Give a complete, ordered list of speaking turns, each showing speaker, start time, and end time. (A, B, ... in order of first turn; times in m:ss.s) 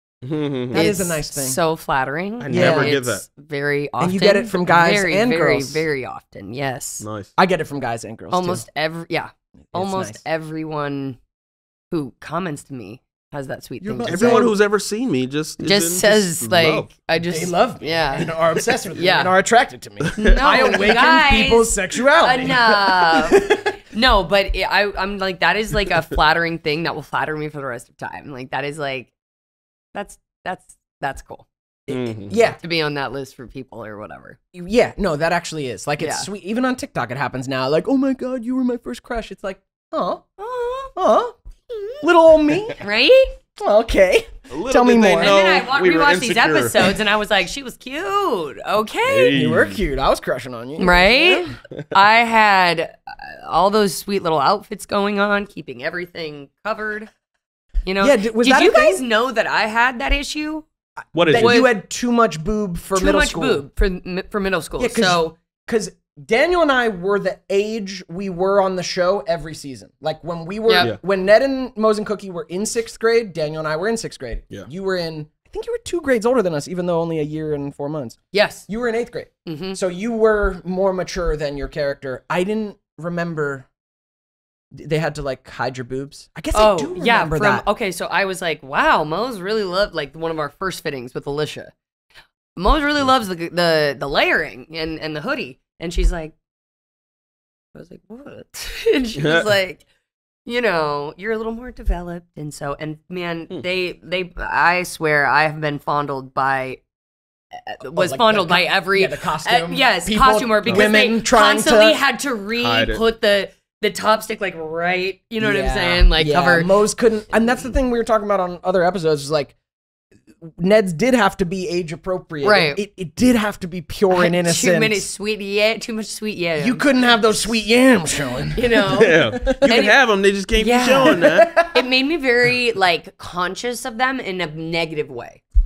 0:00.2-0:00.9 A
0:00.7-0:01.6 B
0:00.7-0:07.1 C
0:02.4-0:03.3 A
0:02.5-0:03.0 B
0:04.0-0:05.9 B
0:07.0-0:07.3 A
0:07.4-0:08.7 B
0:08.3-0:11.2 C
0:09.7-0:10.2 B
0:11.9-0:14.5 C
0:13.8-0:14.5 B
0:14.1-0:17.0 A
0:15.6-0:18.3 C
0:17.3-0:23.8 B
0:19.0-0:19.3 C
0:20.0-0:21.0 A
0:20.2-0:29.1 C
0:29.9-0:31.5 C
0:31.9-0:32.4 A
0:31.9-0:32.6 B
0:32.4-0:34.4 C
0:34.5-0:40.2 B
0:36.0-0:36.3 C
0:40.4-0:41.0 C
0:41.0-0:41.4 B
0:41.7-0:42.0 C
0:42.0-0:42.8 B
0:42.8-0:43.4 C
0:43.6-0:45.4 B
0:44.5-0:47.0 A
0:45.2-0:49.3 C
0:49.0-0:49.8 A
0:49.3-0:51.5 B
0:50.8-0:57.1 C
0:57.8-1:00.7 C
0:58.0-0:59.0 B
1:01.1-1:01.6 A
1:01.2-1:03.6 B
1:01.3-1:01.7 C
1:03.0-1:05.4 C
1:04.8-1:23.7 B
1:18.3-1:18.7 C
1:19.4-1:19.8 C
1:24.7-1:27.6 B
1:26.5-1:31.7 C
1:32.6-1:36.4 C
1:37.7-1:39.8 C
1:39.2-1:39.5 A
1:40.5-1:46.8 C
1:47.6-1:56.8 C
1:47.8-1:52.0 B
1:50.7-1:51.0 A
1:52.6-1:53.0 A
1:55.4-1:59.5 B
2:00.4-2:05.1 B
2:02.4-2:02.8 C
2:04.1-2:07.5 C
2:06.6-2:09.7 B
2:08.5-2:10.0 C
2:08.9-2:11.6 A
2:10.5-2:11.2 C
2:11.0-2:11.8 B
2:11.7-2:15.4 C